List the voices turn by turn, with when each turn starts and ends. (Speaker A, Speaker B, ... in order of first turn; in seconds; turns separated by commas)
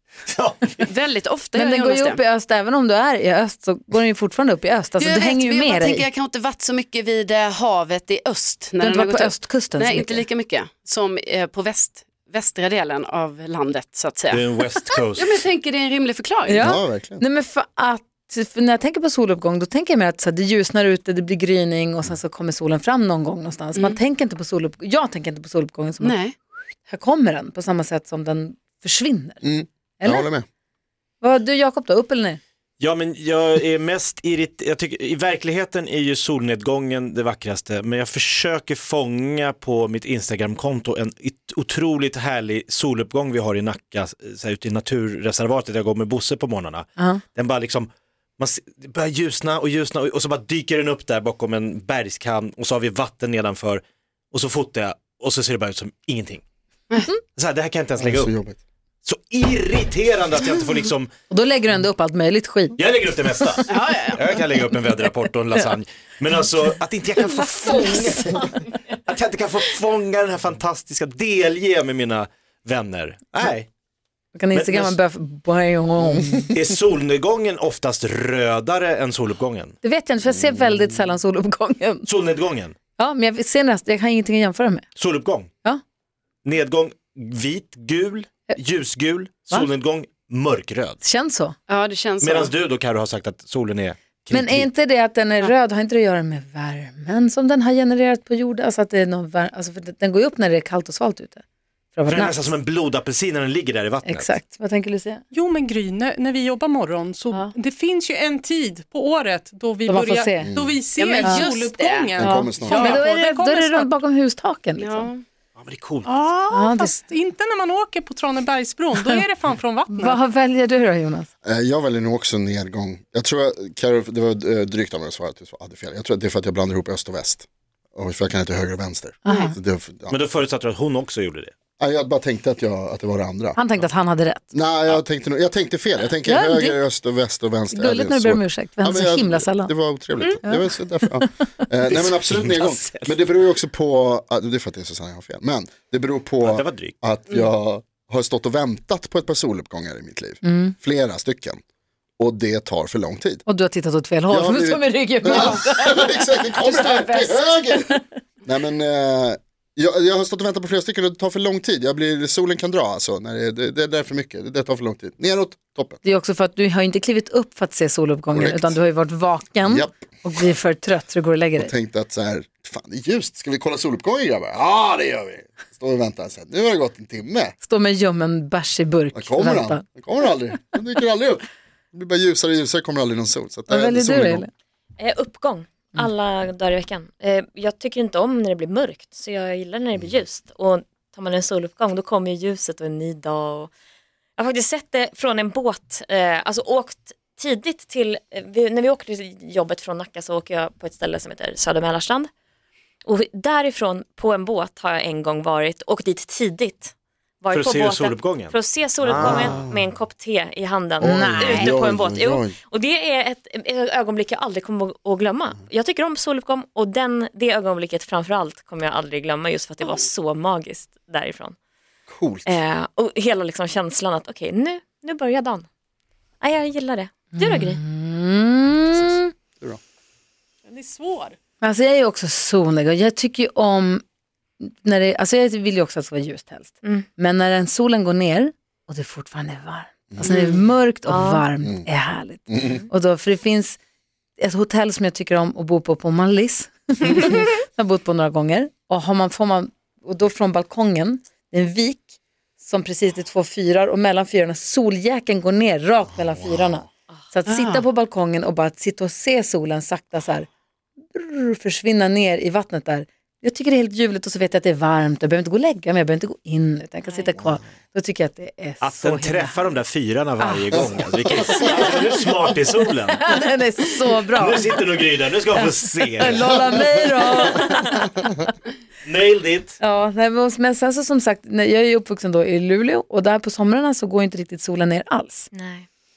Speaker A: 0.2-0.9, Speaker B: 0.9-2.2, Speaker C: 1.5-6.0, Speaker B: 5.0-14.5, Speaker C: 8.8-10.2, Speaker A: 14.3-15.4, Speaker B: 15.2-16.6, Speaker C: 16.4-26.2, Speaker D: 16.6-17.2, Speaker B: 26.0-26.3, Speaker C: 26.9-29.4, Speaker D: 29.4-30.4, Speaker C: 30.0-30.3, Speaker C: 31.2-32.4, Speaker A: 32.8-56.4, Speaker C: 47.0-47.2, Speaker A: 57.3-58.4, Speaker D: 58.0-58.6, Speaker A: 59.0-61.1, Speaker C: 61.3-62.8, Speaker A: 62.8-73.7, Speaker B: 63.7-64.2, Speaker C: 74.3-76.5, Speaker A: 74.5-75.0, Speaker A: 76.5-79.8, Speaker C: 79.8-82.0, Speaker A: 82.0-82.7, Speaker C: 83.0-84.9, Speaker A: 85.0-85.5, Speaker A: 86.4-91.0, Speaker C: 91.0-91.6, Speaker B: 91.7-92.5, Speaker A: 92.2-94.7, Speaker C: 94.3-101.4, Speaker C: 101.9-102.4, Speaker A: 102.1-104.3, Speaker C: 104.0-105.2, Speaker E: 105.3-114.0, Speaker C: 109.8-110.5, Speaker D: 110.4-110.8, Speaker B: 110.9-112.1, Speaker D: 112.2-113.0, Speaker C: 112.2-115.1, Speaker B: 112.8-113.0, Speaker B: 114.8-115.2, Speaker A: 115.5-116.2, Speaker E: 116.0-120.2, Speaker C: 116.5-117.0, Speaker C: 119.9-121.3, Speaker D: 121.4-130.1, Speaker C: 129.2-129.5, Speaker B: 129.3-129.5, Speaker A: 130.1-131.5, Speaker D: 131.8-133.6, Speaker C: 133.5-134.5, Speaker D: 134.5-151.6, Speaker C: 136.2-136.8, Speaker C: 137.7-139.8, Speaker C: 140.4-141.5, Speaker A: 141.9-143.2, Speaker A: 146.4-146.9, Speaker C: 150.4-150.7, Speaker D: 152.2-153.4, Speaker C: 153.4-158.0, Speaker D: 154.3-157.9, Speaker D: 158.4-166.0, Speaker C: 166.0-171.7, Speaker D: 168.3-168.8, Speaker D: 169.6-170.0, Speaker D: 171.6-177.6, Speaker C: 177.6-179.8, Speaker D: 179.1-184.4, Speaker C: 183.7-184.5, Speaker F: 185.1-193.7, Speaker D: 189.9-190.2, Speaker F: 194.4-198.0, Speaker F: 199.8-201.0, Speaker F: 203.4-206.9, Speaker A: 207.5-209.7, Speaker D: 209.2-209.9, Speaker F: 210.9-212.1, Speaker C: 211.0-211.7, Speaker D: 211.0-212.6, Speaker F: 213.0-213.6, Speaker F: 215.2-215.7, Speaker F: 216.6-217.3, Speaker F: 218.5-221.5, Speaker D: 222.1-222.6, Speaker F: 222.8-225.6, Speaker F: 226.4-227.6, Speaker C: 227.3-229.3, Speaker E: 230.6-231.4, Speaker C: 231.6-234.0, Speaker C: 234.6-243.8, Speaker D: 242.5-242.8, Speaker C: 244.4-260.5, Speaker D: 256.1-256.9, Speaker B: 257.5-257.8, Speaker C: 261.1-269.7, Speaker A: 268.8-273.2, Speaker C: 270.4-272.1, Speaker C: 273.2-274.8, Speaker A: 274.3-276.5, Speaker C: 275.5-278.4, Speaker A: 279.0-279.8, Speaker C: 279.8-285.5